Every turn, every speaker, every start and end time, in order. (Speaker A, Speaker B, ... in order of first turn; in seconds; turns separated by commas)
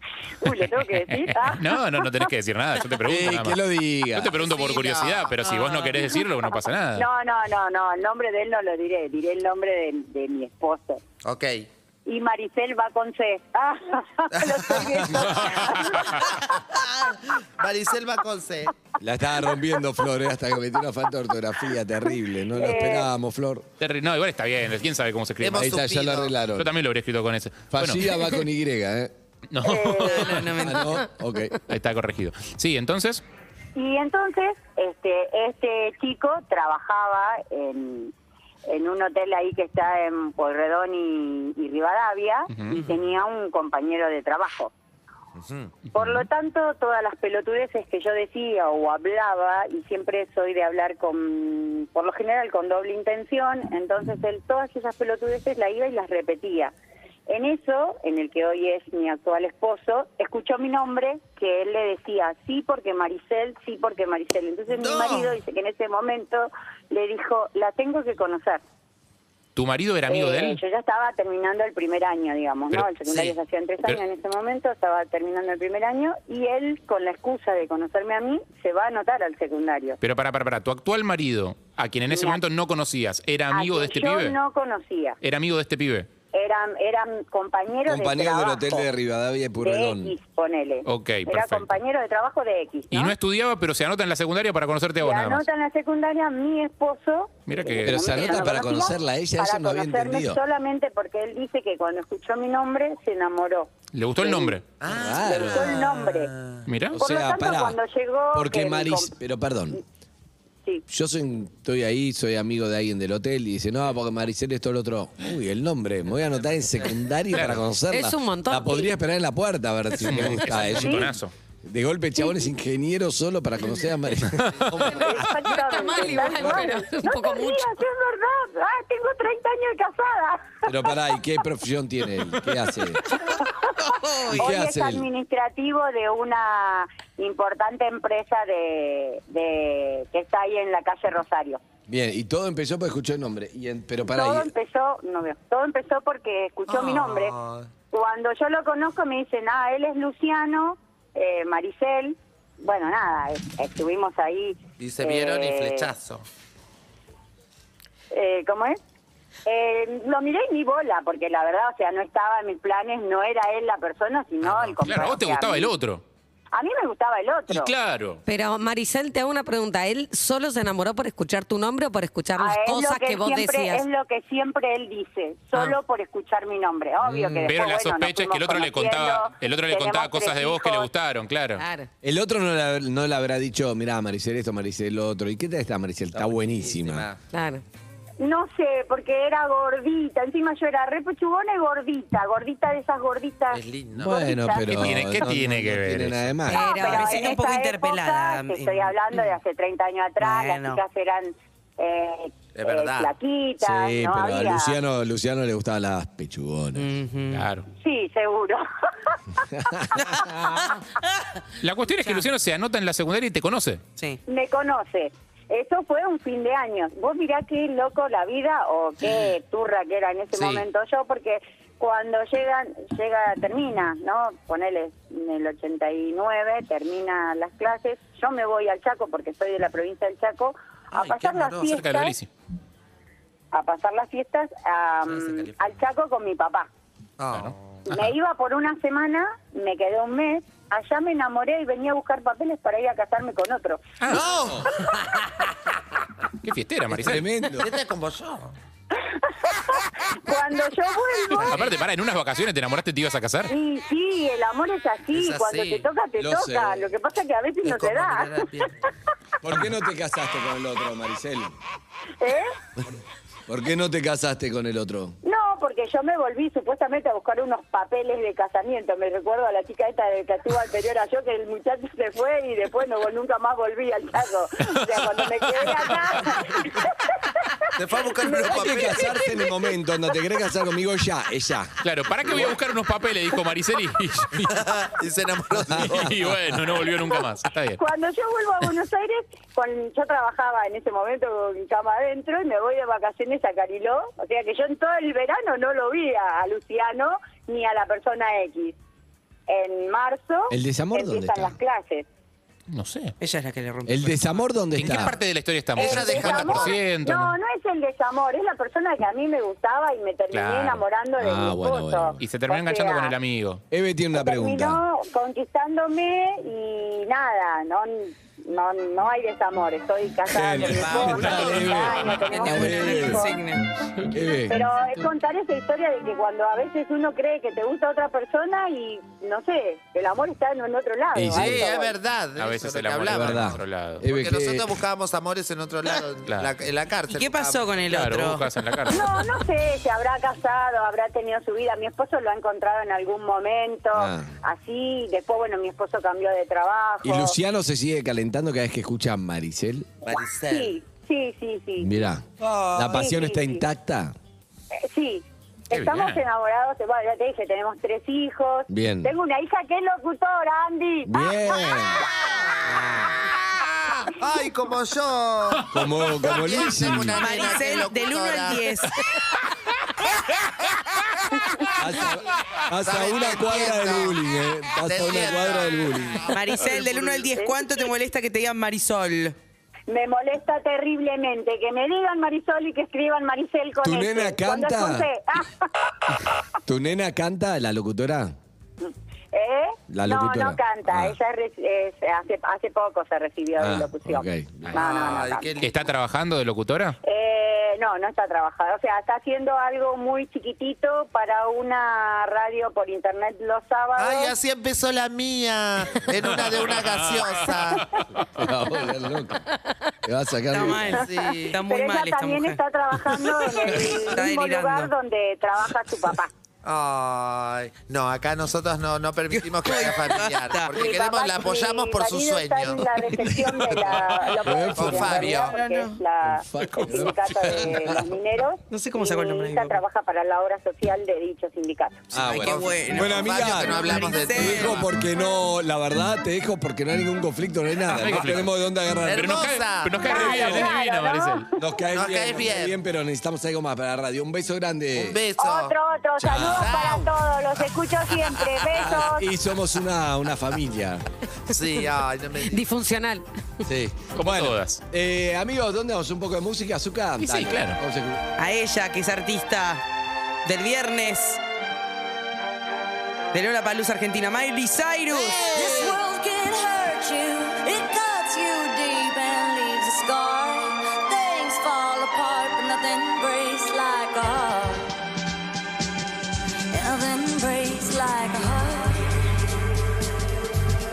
Speaker A: 0.4-2.3, Speaker B: 0.4-7.1, Speaker C: 3.0-4.4, Speaker D: 4.4-5.4, Speaker E: 5.5-6.0, Speaker A: 7.0-11.0, Speaker D: 11.2-11.7, Speaker A: 12.1-16.3, Speaker D: 14.3-18.7, Speaker B: 15.2-16.3, Speaker C: 19.0-23.7, Speaker A: 22.5-23.1, Speaker B: 23.8-25.8, Speaker D: 25.4-26.4, Speaker C: 25.5-26.7, Speaker B: 26.6-28.1, Speaker C: 27.7-29.1, Speaker B: 29.5-30.4, Speaker A: 29.6-30.2, Speaker E: 30.0-31.0, Speaker C: 30.4-31.6, Speaker B: 31.7-33.2, Speaker A: 33.8-38.1, Speaker A: 38.7-44.7, Speaker B: 42.5-42.8, Speaker E: 42.7-43.0, Speaker D: 45.4-45.7, Speaker B: 45.9-46.3, Speaker A: 45.9-56.7, Speaker A: 57.3-68.6, Speaker D: 64.7-65.4, Speaker B: 69.5-70.6, Speaker A: 70.1-80.0, Speaker B: 72.7-74.0, Speaker B: 80.0-84.4, Speaker A: 82.1-82.4, Speaker A: 83.5-85.2, Speaker B: 85.2-86.1, Speaker A: 86.3-88.9, Speaker C: 87.9-90.2, Speaker A: 89.6-93.2, Speaker B: 90.8-91.7, Speaker B: 92.9-95.4, Speaker A: 95.0-104.6, Speaker B: 97.5-98.5, Speaker C: 97.8-100.4, Speaker B: 103.9-104.6, Speaker D: 104.8-106.7, Speaker C: 104.9-105.8, Speaker A: 105.2-106.3, Speaker B: 106.7-107.0, Speaker C: 107.0-107.8, Speaker A: 107.0-109.1, Speaker C: 108.3-109.8, Speaker C: 110.9-125.3, Speaker B: 117.3-117.7, Speaker F: 117.9-118.9, Speaker B: 120.0-121.3, Speaker F: 120.2-120.7, Speaker A: 120.8-121.1, Speaker A: 122.2-122.5, Speaker B: 124.3-124.7, Speaker F: 124.9-127.7, Speaker A: 125.0-131.0, Speaker C: 126.2-126.7, Speaker C: 130.7-133.1, Speaker A: 133.3-133.7, Speaker E: 133.8-134.4, Speaker C: 134.3-135.1, Speaker A: 134.4-141.6, Speaker C: 141.9-144.5, Speaker A: 144.0-147.4, Speaker D: 146.7-147.7, Speaker A: 147.9-155.9, Speaker D: 154.8-156.2, Speaker A: 158.1-158.8, Speaker A: 159.5-165.7, Speaker B: 164.4-166.0, Speaker A: 166.5-167.7, Speaker B: 167.5-168.2, Speaker F: 168.3-173.8, Speaker A: 172.4-180.9, Speaker C: 177.1-177.5, Speaker D: 177.1-177.4, Speaker B: 177.5-181.6, Speaker F: 181.6-181.9, Speaker C: 182.0-187.1, Speaker D: 186.1-187.2, Speaker F: 187.3-187.6, Speaker A: 188.2-195.2, Speaker D: 193.5-194.4, Speaker C: 194.0-197.0, Speaker B: 194.7-196.2, Speaker A: 196.5-204.8, Speaker F: 196.5-197.2, Speaker E: 196.5-199.2, Speaker E: 200.2-200.8, Speaker D: 202.6-203.1, Speaker C: 203.6-206.9, Speaker E: 206.8-207.4, Speaker B: 207.3-207.7, Speaker A: 207.8-209.4, Speaker C: 209.5-210.7, Speaker E: 210.0-211.4, Speaker B: 211.6-213.8, Speaker E: 211.9-212.3, Speaker A: 214.3-232.2, Speaker D: 220.3-220.7, Speaker D: 230.9-231.8, Speaker B: 231.6-232.3, Speaker A: 233.5-236.7, Speaker D: 235.1-235.6, Speaker D: 237.2-237.8, Speaker B: 237.3-238.1, Speaker A: 237.9-243.8, Speaker D: 244.1-245.2, Speaker C: 244.4-244.7, Speaker B: 246.4-247.3, Speaker C: 246.9-247.7, Speaker D: 247.6-248.5, Speaker A: 249.0-251.8, Speaker B: 251.4-253.5, Speaker A: 253.5-258.7, Speaker D: 255.1-255.9, Speaker C: 256.2-256.9, Speaker D: 257.6-258.8, Speaker C: 259.4-261.6, Speaker A: 262.2-262.5, Speaker C: 263.5-265.2, Speaker A: 265.2-280.1, Speaker B: 274.6-275.0, Speaker D: 277.8-279.4, Speaker C: 278.4-282.6, Speaker B: 281.8-284.8, Speaker D: 284.5-286.3, Speaker C: 285.7-286.6, Speaker B: 285.7-287.8, Speaker A: 287.8-298.8, Speaker A: 299.5-302.1, Speaker C: 300.5-301.6, Speaker B: 302.7-303.1, Speaker E: 303.2-304.4, Speaker C: 303.9-305.2, Speaker B: 304.8-307.4, Speaker A: 305.8-313.1, Speaker D: 305.8-306.8, Speaker B: 310.3-310.8, Speaker C: 311.2-312.2, Speaker B: 312.2-313.6, Speaker C: 313.7-314.8, Speaker A: 314.1-323.4, Speaker C: 320.2-323.4, Speaker E: 320.6-323.7, Speaker C: 324.1-324.7, Speaker A: 324.4-332.0, Speaker C: 331.1-331.7, Speaker D: 331.4-337.7, Speaker B: 332.4-334.1, Speaker C: 333.1-334.7, Speaker B: 336.3-336.5, Speaker E: 337.1-338.5, Speaker B: 337.9-339.0, Speaker A: 338.9-347.4, Speaker C: 343.9-344.3, Speaker C: 347.0-350.0, Speaker A: 350.0-352.1, Speaker D: 350.0-350.8, Speaker C: 351.8-354.1, Speaker D: 352.4-353.1, Speaker A: 352.9-353.6, Speaker A: 354.8-362.0, Speaker B: 355.7-356.2, Speaker C: 358.7-359.1, Speaker C: 361.0-362.1, Speaker D: 362.0-362.8, Speaker C: 362.6-363.2, Speaker D: 363.5-368.7, Speaker C: 365.7-367.3, Speaker E: 367.2-369.0, Speaker D: 371.3-374.2, Speaker C: 371.8-376.4, Speaker D: 374.8-377.2, Speaker E: 376.3-379.4, Speaker A: 377.3-377.8, Speaker A: 379.9-386.2, Speaker C: 383.8-385.1, Speaker C: 386.6-388.4, Speaker A: 388.8-395.6, Speaker C: 389.9-391.2, Speaker C: 393.6-394.9, Speaker D: 394.7-395.9, Speaker B: 395.6-397.0, Speaker A: 397.0-404.4, Speaker D: 404.0-408.1, Speaker B: 406.3-408.3, Speaker C: 408.4-409.4, Speaker C: 410.0-411.1, Speaker E: 410.5-412.6, Speaker D: 410.9-411.6, Speaker A: 411.6-416.3, Speaker E: 413.6-414.9, Speaker C: 413.7-414.0, Speaker D: 416.6-425.6, Speaker E: 419.3-420.9, Speaker A: 420.7-432.2, Speaker E: 423.3-423.8, Speaker C: 424.4-425.4, Speaker E: 425.2-426.0, Speaker C: 426.2-428.1, Speaker B: 426.6-427.7, Speaker E: 428.7-429.8, Speaker C: 432.1-439.5, Speaker E: 432.1-434.9, Speaker D: 432.3-434.8, Speaker B: 437.9-438.5, Speaker D: 439.0-440.2, Speaker B: 439.1-441.5, Speaker A: 440.0-441.6, Speaker C: 440.1-440.7, Speaker C: 441.6-445.2, Speaker D: 441.9-442.8, Speaker D: 444.9-449.1, Speaker A: 445.4-449.3, Speaker C: 446.2-446.9, Speaker C: 448.8-451.1, Speaker D: 451.5-452.6, Speaker F: 452.5-453.2, Speaker C: 453.6-458.2, Speaker B: 454.2-454.8, Speaker B: 457.2-457.8, Speaker E: 458.4-459.8, Speaker E: 460.4-461.4, Speaker E: 463.3-465.5, Speaker D: 465.1-466.0, Speaker G: 465.5-474.9, Speaker G: 476.7-479.2